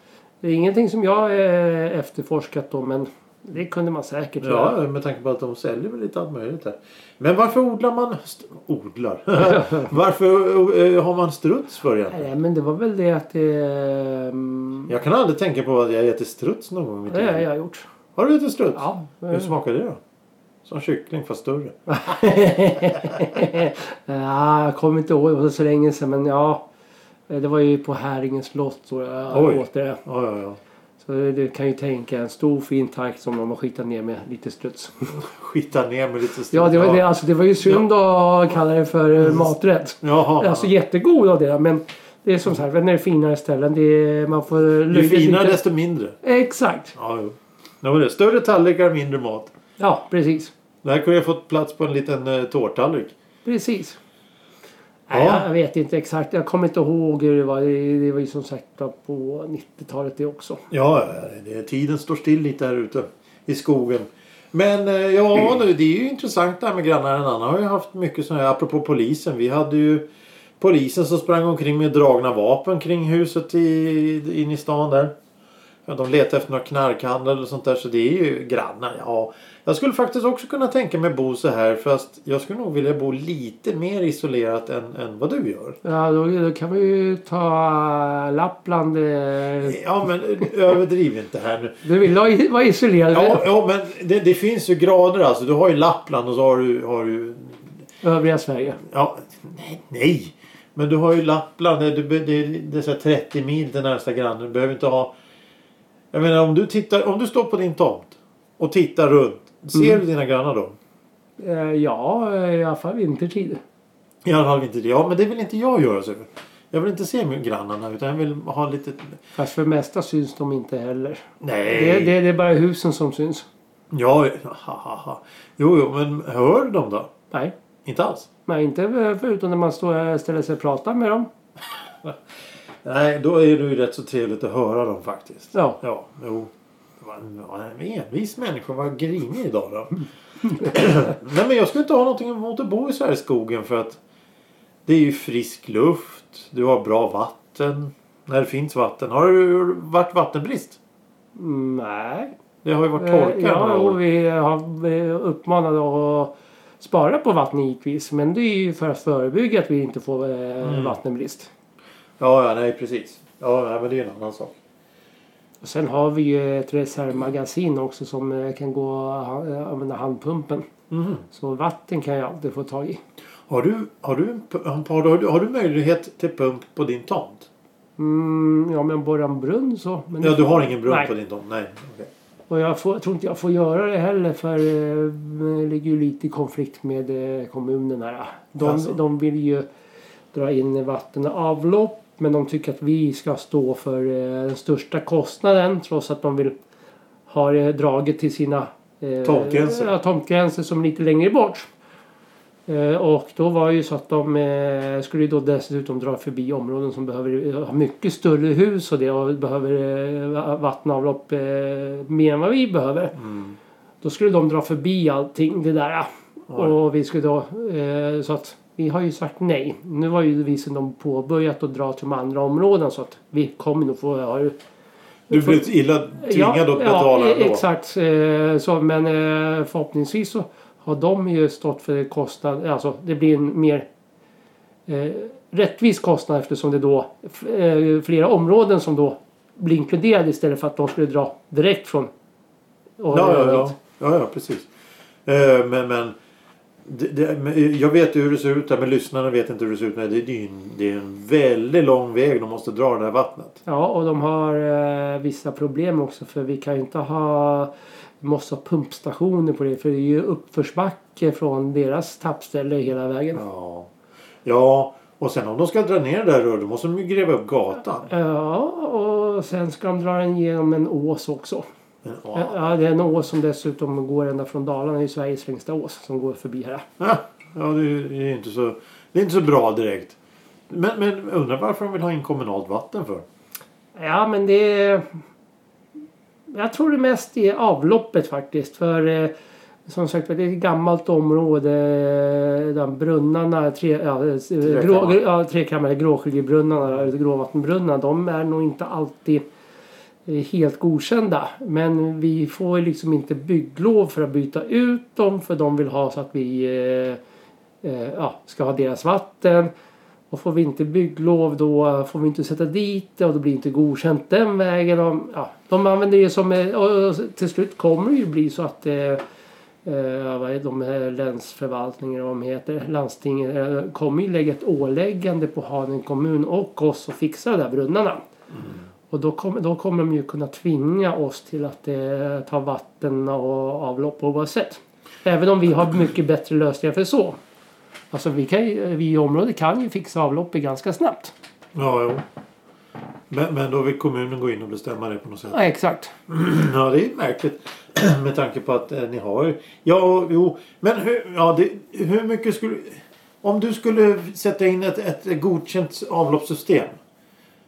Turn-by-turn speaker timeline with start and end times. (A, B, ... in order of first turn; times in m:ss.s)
0:00.4-0:04.8 A
0:04.4-0:12.3 B
0:09.5-0:09.9 A
0:12.1-0:14.9 A
0:14.9-0:17.4 B
0:17.1-0:17.8 A
0:18.2-0:20.0 B
0:18.7-0:19.5 A
0:20.6-0:21.7 B
0:21.9-0:26.6 A
0:27.3-0:30.0 A
0:29.3-0:30.6 B
0:31.0-0:35.2 A
0:35.1-0:37.0 B
0:36.5-0:45.6 A
0:40.0-0:40.7 B
0:44.9-0:46.2 B
0:46.2-0:46.9 A
0:46.9-0:49.5 B
0:49.8-0:50.5 A
0:50.8-0:53.1 B
0:53.4-0:54.0 A
0:55.1-1:00.6 A
0:55.1-0:55.5 B
1:00.7-1:10.0 B
1:10.6-1:15.1 B
1:15.8-1:25.8 B
1:25.8-1:29.8 A
1:29.6-1:31.8 B
1:31.8-1:33.4 A
1:33.1-1:37.7 B
1:38.0-1:38.8 A
1:38.8-1:45.1 B
1:46.1-1:50.8 B
1:51.4-1:53.6 A
1:54.2-1:59.2 B
1:59.4-2:03.4 A
2:01.4-2:02.1 B
2:03.9-2:07.1 B
2:07.8-2:08.3 B
2:08.5-2:11.3 A
2:12.8-2:24.0 B
2:15.5-2:15.8 A
2:24.8-2:30.8 B
2:31.4-2:32.3 A
2:32.6-2:34.0 B
2:33.0-2:41.5 A
2:40.6-2:41.0 B
2:42.2-2:44.6 B
2:45.6-2:50.7 A
2:50.9-2:51.2 B
2:51.3-2:53.0 A
2:53.5-2:57.5 B
2:58.0-3:01.1 A
3:00.2-3:02.1 B
3:02.5-3:09.6 A
3:08.6-3:09.0 B
3:10.3-3:16.5 A
3:17.3-3:21.7 A
3:19.2-3:19.9 B
3:22.7-3:33.2 A
3:33.2-3:33.6 B
3:34.0-3:44.5 A
3:45.3-3:47.6 B
3:45.3-3:45.6 A
3:46.2-3:53.8 A
3:54.9-4:02.1 A
4:03.0-4:03.8 A
4:03.1-4:04.7 B
4:05.2-4:06.1 B
4:06.8-4:13.6 B
4:13.6-4:23.4 A
4:23.3-4:23.9 B
4:24.4-4:28.1 B
4:28.1-4:31.6 A
4:32.0-4:32.6 B
4:32.3-4:36.8 A
4:37.0-4:40.2 B
4:40.7-4:43.2 B
4:43.9-4:45.2 A
4:46.5-4:49.3 A
4:49.9-4:59.4 A
4:54.6-4:55.2 B
5:00.2-5:07.2 A
5:07.8-5:09.7 A
5:10.3-5:19.2 A
5:19.8-5:28.2 A
5:29.1-5:37.4 A
5:38.1-5:41.3 A
5:41.7-5:42.2 B
5:43.3-5:45.6 B
5:45.5-5:46.1 A
5:46.3-5:57.0 B